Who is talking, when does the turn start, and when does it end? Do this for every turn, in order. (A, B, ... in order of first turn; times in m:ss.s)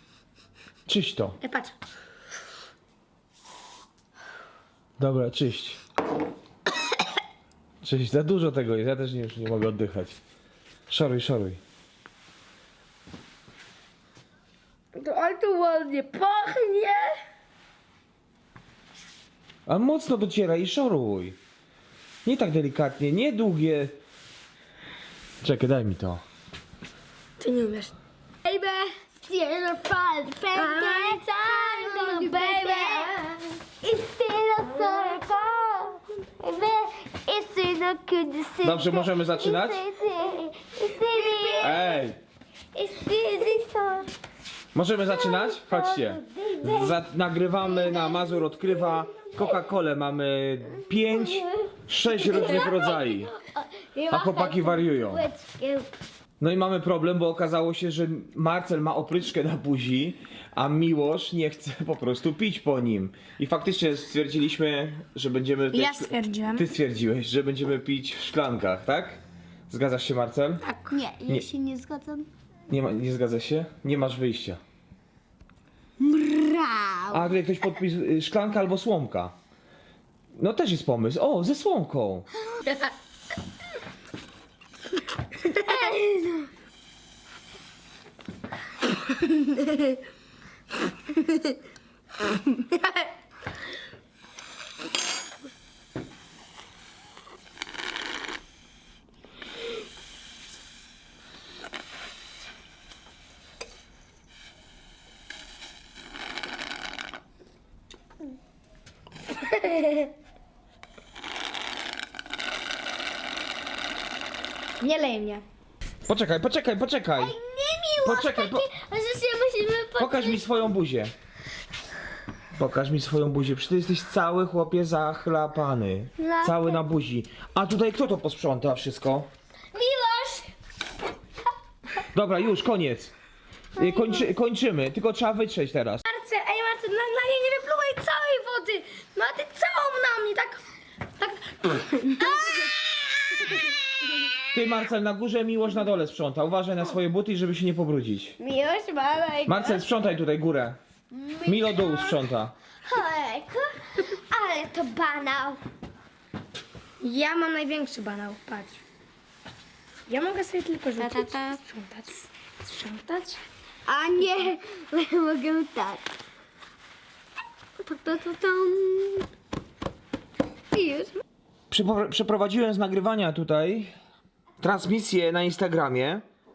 0:00.9-0:01.4 A
0:01.4-0:01.7 B
0:05.0-0:05.8 A
0:07.8-0:10.2 A
0:10.9-0:11.6 A
0:15.0-0:17.2 B
0:19.7-0:21.4 A
0:22.2-0:24.0 A
0:25.4-0:26.2 A
0:27.4-0:27.9 B
0:28.4-0:33.1 C
0:30.5-0:33.4 B
0:33.8-0:42.0 C
0:34.9-0:35.2 B
0:38.6-0:39.8 A
0:41.1-0:41.9 B
0:41.6-0:42.2 A
0:42.7-0:44.1 C
0:44.7-0:53.3 A
0:45.0-0:47.0 C
0:47.8-0:49.3 C
0:52.0-0:55.9 C
0:54.1-0:55.2 A
0:56.4-1:10.6 A
1:05.7-1:06.7 B
1:10.6-1:11.0 B
1:10.9-1:12.3 C
1:12.7-1:14.6 A
1:16.0-1:17.4 C
1:17.1-1:19.4 A
1:20.4-1:22.3 A
1:25.6-1:26.4 C
1:49.5-1:49.9 B
1:54.8-1:55.4 B
1:56.1-1:57.3 A
1:57.2-2:00.6 C
1:58.0-1:58.7 A
2:00.0-2:01.1 A
2:02.6-2:09.3 A
2:06.2-2:06.8 C
2:09.7-2:10.3 C
2:12.1-2:13.1 A
2:13.8-2:16.0 A
2:13.8-2:14.3 C
2:16.1-2:20.6 B
2:21.2-2:22.4 B
2:24.5-2:28.4 A
2:28.4-2:29.8 C
2:29.4-2:30.8 A
2:31.1-2:32.2 C
2:31.4-2:32.5 A
2:32.8-2:35.6 C
2:37.0-2:38.8 B
2:40.1-2:43.4 B
2:41.0-2:41.5 C
2:43.8-2:46.0 C
2:47.8-2:49.3 C
2:50.7-2:51.2 C
2:51.7-2:53.9 A
2:54.6-2:56.2 A